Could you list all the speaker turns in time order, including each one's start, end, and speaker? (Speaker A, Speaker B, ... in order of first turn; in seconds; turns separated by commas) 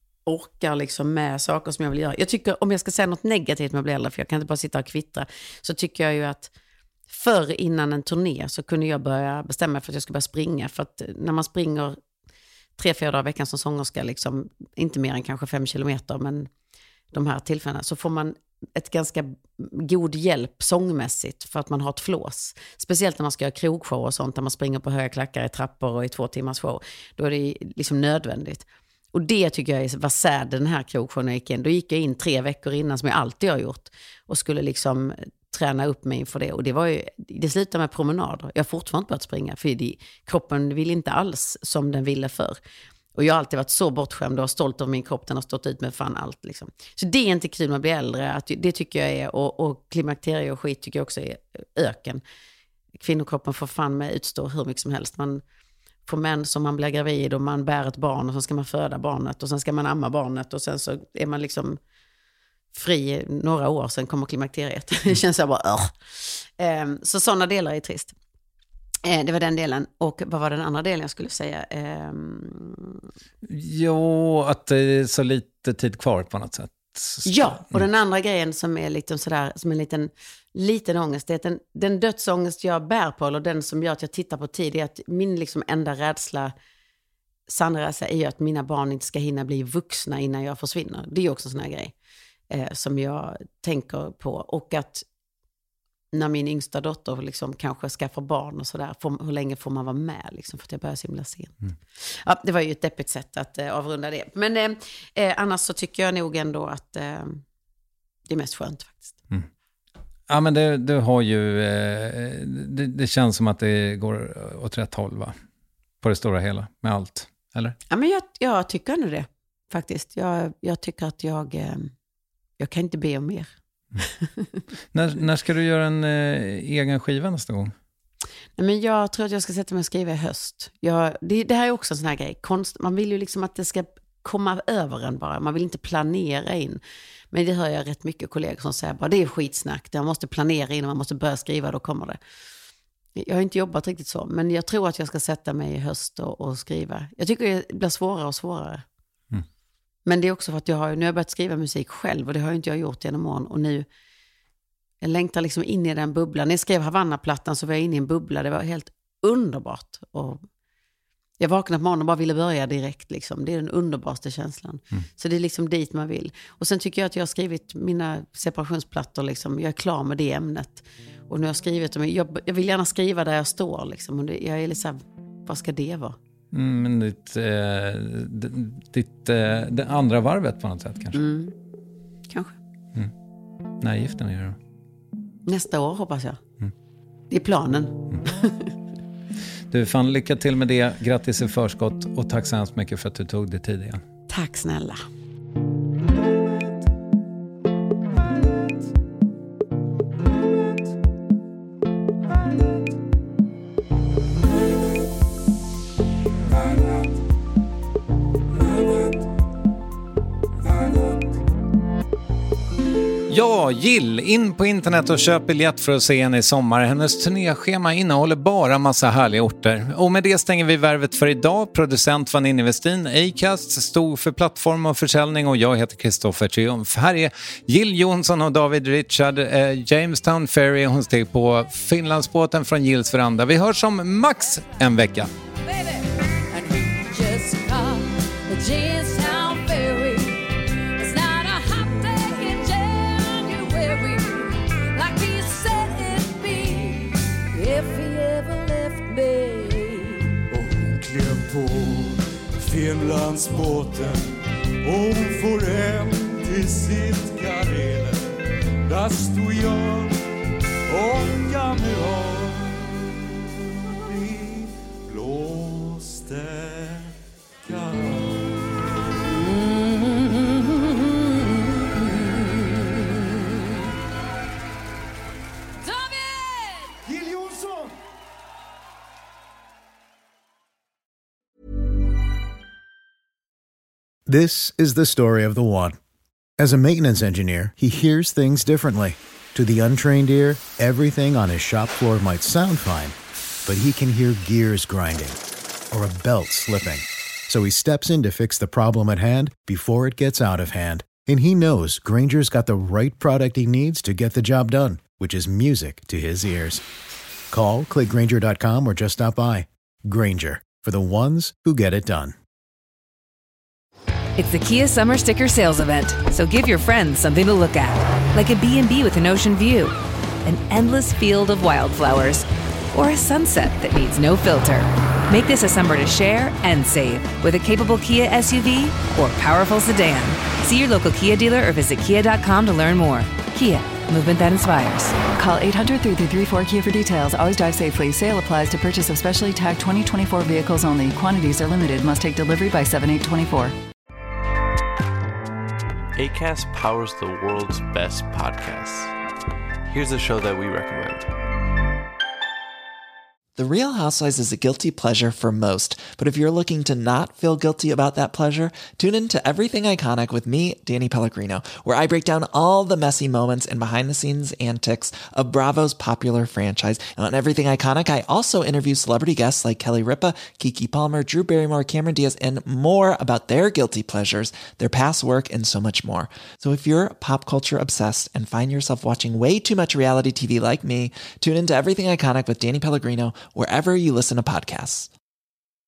Speaker A: 0.2-6.5, Speaker A: 7.1-12.0, Speaker A: 12.8-16.5, Speaker A: 17.1-42.6, Speaker A: 43.1-52.2, Speaker A: 53.0-55.4, Speaker A: 56.0-61.8, Speaker A: 62.7-68.1, Speaker A: 69.0-73.0, Speaker B: 73.5-77.8, Speaker A: 77.2-86.5, Speaker A: 87.5-91.9, Speaker A: 92.5-95.0, Speaker A: 96.1-107.4, Speaker A: 108.3-109.2, Speaker B: 110.3-115.3, Speaker B: 116.0-117.8, Speaker A: 117.9-121.9, Speaker A: 122.6-123.5, Speaker A: 124.2-124.5, Speaker B: 124.9-127.7, Speaker A: 128.6-142.2, Speaker A: 143.1-148.8, Speaker A: 150.0-153.8, Speaker A: 155.0-160.4, Speaker A: 161.4-176.2, Speaker B: 176.5-181.2, Speaker A: 181.1-181.5, Speaker A: 182.3-182.6, Speaker B: 183.8-184.6, Speaker A: 185.4-186.4, Speaker A: 187.3-188.7, Speaker B: 189.7-194.0, Speaker A: 194.3-195.0, Speaker B: 213.3-235.3, Speaker C: 235.6-250.4, Speaker D: 250.5-258.3, Speaker D: 258.8-260.2, Speaker D: 260.9-268.9, Speaker C: 275.8-276.9, Speaker D: 277.1-277.9, Speaker E: 284.2-286.0, Speaker E: 286.6-295.4, Speaker E: 295.9-306.8, Speaker E: 307.5-312.4, Speaker F: 314.4-335.7, Speaker G: 339.6-340.2, Speaker G: 340.9-342.2, Speaker G: 343.3-343.6, Speaker H: 346.1-349.1, Speaker H: 349.9-351.3, Speaker I: 353.6-385.1